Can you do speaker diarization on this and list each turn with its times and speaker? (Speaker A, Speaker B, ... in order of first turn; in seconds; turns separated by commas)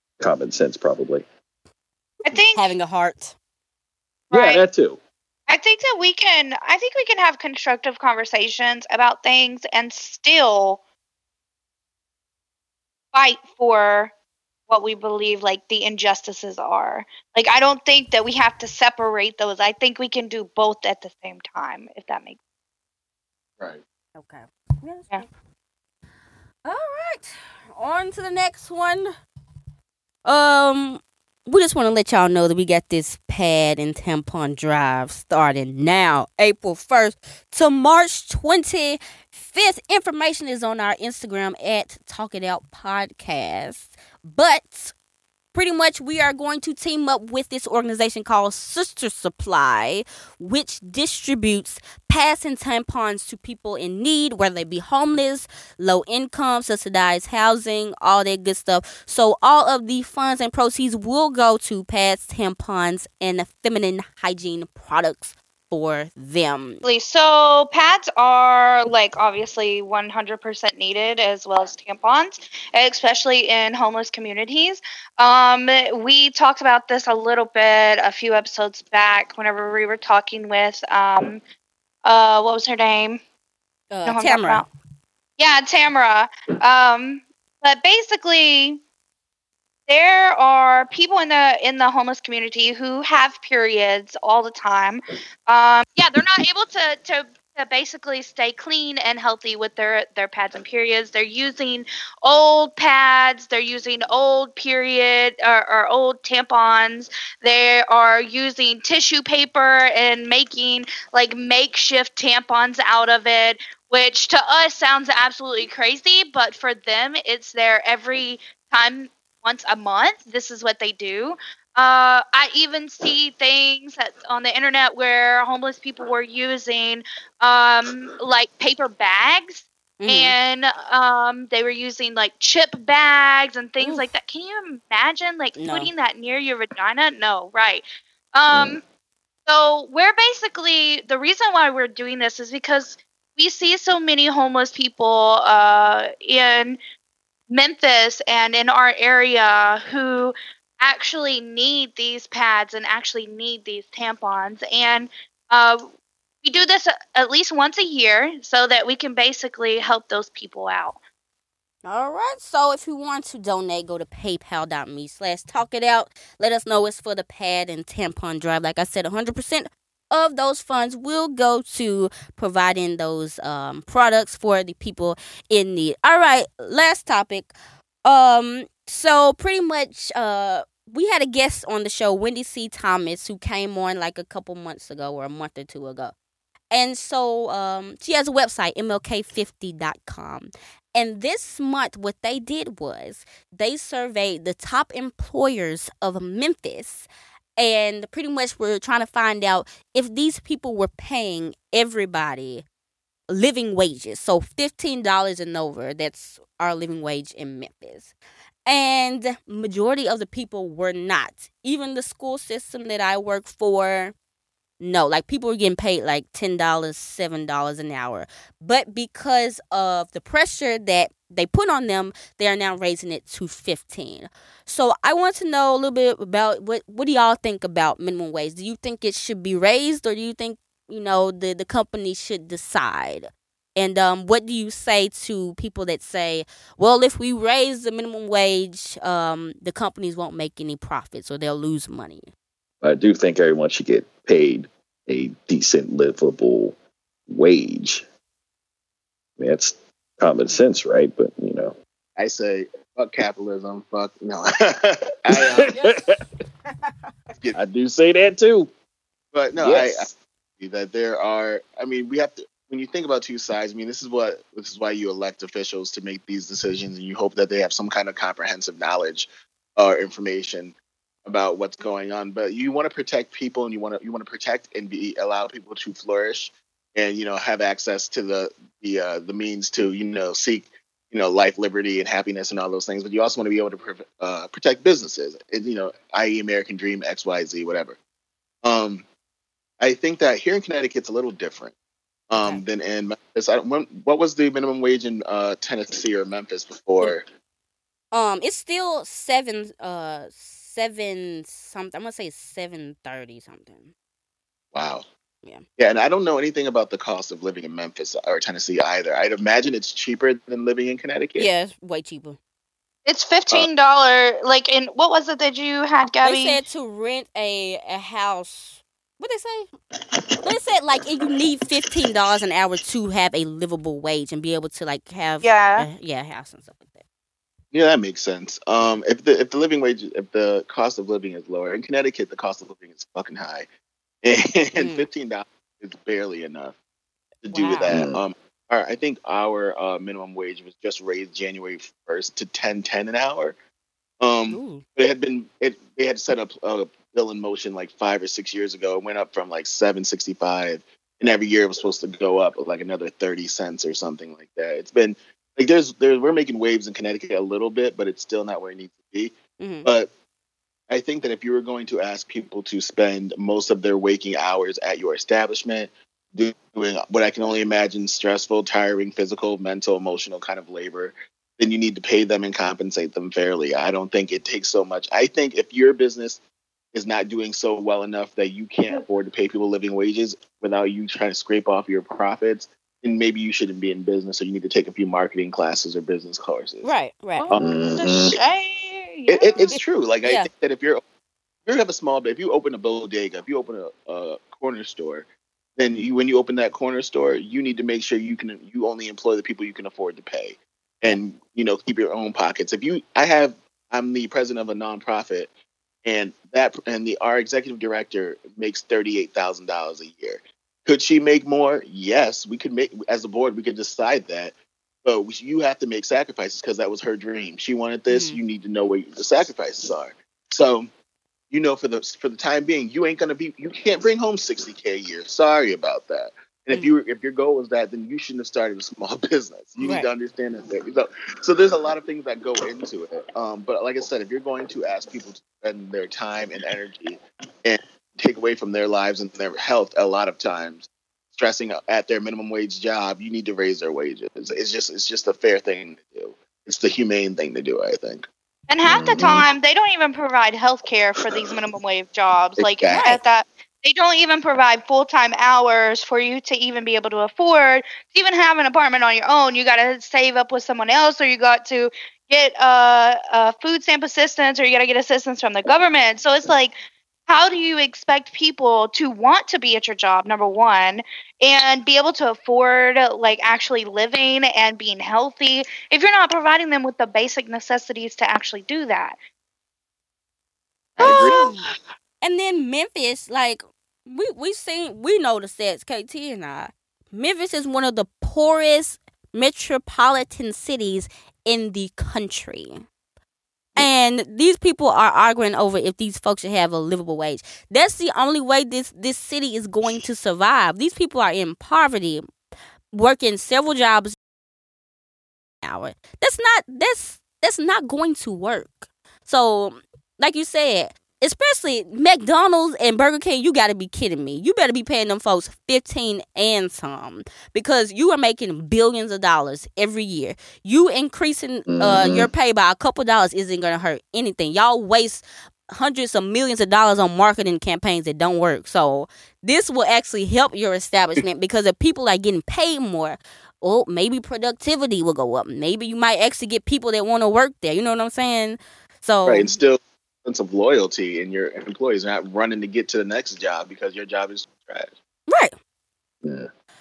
Speaker A: 0.2-1.2, Speaker B: 2.3-2.7, Speaker C: 2.3-3.4, Speaker B: 4.3-4.6, Speaker A: 4.3-5.0, Speaker B: 5.5-10.8, Speaker B: 13.1-14.1, Speaker B: 14.7-22.4, Speaker C: 24.1-25.3, Speaker C: 26.6-29.1, Speaker C: 30.2-44.9, Speaker C: 45.5-66.8, Speaker B: 66.8-81.4, Speaker B: 82.0-83.2, Speaker C: 83.9-84.7, Speaker B: 84.0-84.7, Speaker B: 85.4-88.8, Speaker B: 89.9-138.8, Speaker C: 130.0-130.3, Speaker C: 133.8-134.1, Speaker C: 135.6-135.9, Speaker A: 138.5-138.8, Speaker B: 139.5-146.8, Speaker B: 147.5-155.9, Speaker B: 156.4-161.0, Speaker C: 161.8-177.5, Speaker C: 178.1-186.1, Speaker C: 186.7-202.7, Speaker C: 203.3-208.1, Speaker C: 208.7-214.1, Speaker C: 214.8-242.3, Speaker A: 242.8-246.8, Speaker A: 247.3-248.1, Speaker A: 249.4-251.8, Speaker D: 252.2-255.8, Speaker A: 255.3-256.2, Speaker A: 257.5-258.7, Speaker D: 259.3-270.8, Speaker A: 259.6-260.1, Speaker D: 271.3-288.0, Speaker D: 288.6-289.1, Speaker D: 289.8-291.7, Speaker D: 292.3-297.3, Speaker C: 292.4-292.6, Speaker C: 298.1-303.9, Speaker D: 304.7-305.1, Speaker D: 305.8-311.5, Speaker C: 311.4-312.4, Speaker B: 313.1-316.6, Speaker C: 316.2-319.7, Speaker C: 320.4-327.0, Speaker B: 325.4-325.9, Speaker D: 327.7-333.6, Speaker D: 334.2-336.8, Speaker C: 334.8-335.0, Speaker D: 337.4-343.6, Speaker C: 337.5-337.9, Speaker A: 337.9-338.2, Speaker D: 344.2-359.3, Speaker C: 344.5-344.8, Speaker C: 359.6-359.9, Speaker D: 360.9-376.4, Speaker D: 376.9-386.9, Speaker C: 386.8-387.5, Speaker B: 387.4-389.8, Speaker D: 387.5-388.4, Speaker A: 387.6-388.4, Speaker D: 389.3-391.0, Speaker C: 389.6-390.5, Speaker D: 391.6-405.5, Speaker D: 406.1-414.5, Speaker D: 415.1-420.9, Speaker C: 418.1-418.4, Speaker D: 421.5-448.3, Speaker C: 429.8-430.1, Speaker B: 448.7-466.7, Speaker A: 448.9-449.5, Speaker D: 452.6-453.1, Speaker C: 452.9-453.2, Speaker B: 467.3-479.1, Speaker D: 480.9-481.4, Speaker B: 481.0-481.6, Speaker C: 481.0-481.6, Speaker C: 482.2-492.9, Speaker C: 493.8-502.2, Speaker C: 502.9-504.2, Speaker C: 505.6-539.5, Speaker A: 521.7-522.3, Speaker D: 539.3-544.9, Speaker C: 545.3-545.5, Speaker A: 546.2-546.5